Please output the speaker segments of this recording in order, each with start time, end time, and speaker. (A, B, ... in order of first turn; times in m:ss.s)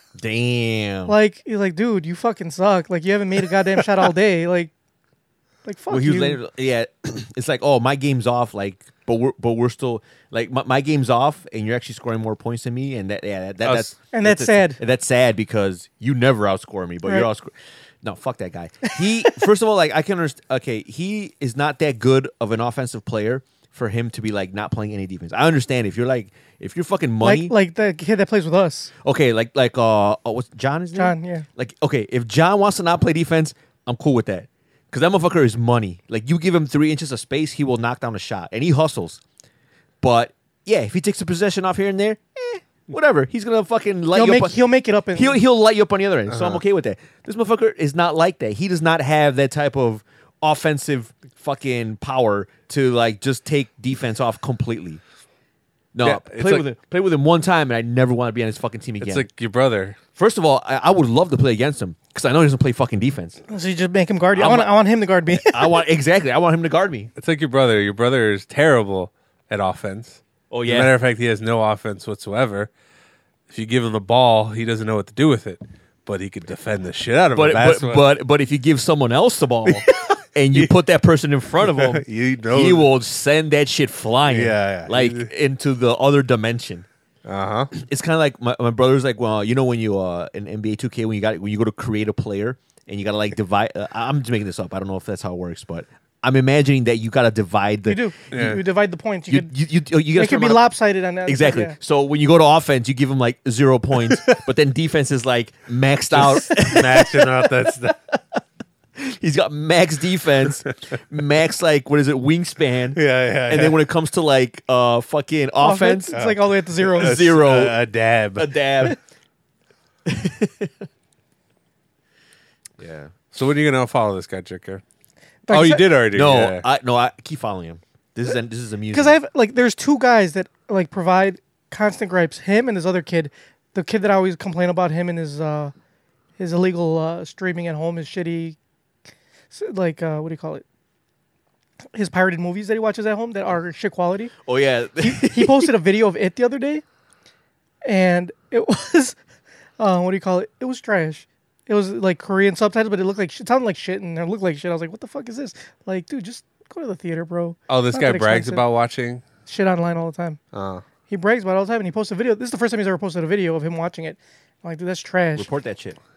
0:00.1-0:01.2 A
0:01.1-0:04.7 B
0:05.6-0:06.4 B
0:05.9-0:27.5 A
0:13.6-0:13.9 C
0:14.1-0:14.8 B
0:27.2-0:28.9 B
0:29.0-0:39.2 A
0:30.9-0:31.5 B
0:40.0-0:44.6 A
0:44.1-0:45.4 B
0:45.1-0:55.0 A
0:46.3-0:46.6 C
0:55.9-0:59.2 A
0:56.0-0:56.6 C
0:59.0-1:00.0 C
1:00.2-1:03.4 A
1:03.5-1:05.8 B
1:04.3-1:04.7 A
1:05.3-1:07.1 A
1:07.2-1:12.7 C
1:10.5-1:10.9 A
1:13.5-1:18.1 C
1:17.3-1:26.8 A
1:19.7-1:20.0 C
1:21.6-1:22.9 C
1:24.3-1:25.3 C
1:27.2-1:27.7 C
1:27.7-1:38.1 A
1:37.8-1:39.5 B
1:38.3-1:38.6 C
1:39.3-1:40.6 A
1:40.1-1:41.8 B
1:41.2-1:48.2 A
1:46.1-1:48.0 C
1:49.0-1:56.1 A
1:52.9-1:53.8 C
1:55.6-1:57.3 B
1:56.1-1:58.5 C
1:56.9-1:57.8 A
1:58.3-1:59.0 A
2:00.0-2:00.8 A
2:02.8-2:03.1 A
2:03.3-2:04.8 C
2:05.5-2:05.8 B
2:05.5-2:06.6 C
2:06.1-2:09.2 A
2:08.9-2:15.7 B
2:16.4-2:18.6 B
2:19.5-2:20.6 B
2:21.9-2:24.3 B
2:24.4-2:25.7 A
2:25.0-2:26.8 B
2:27.8-2:29.2 B
2:29.8-2:38.6 B
2:37.7-2:39.2 C
2:39.5-2:40.4 B
2:40.5-2:40.8 C
2:41.1-2:45.5 B
2:45.4-2:46.0 A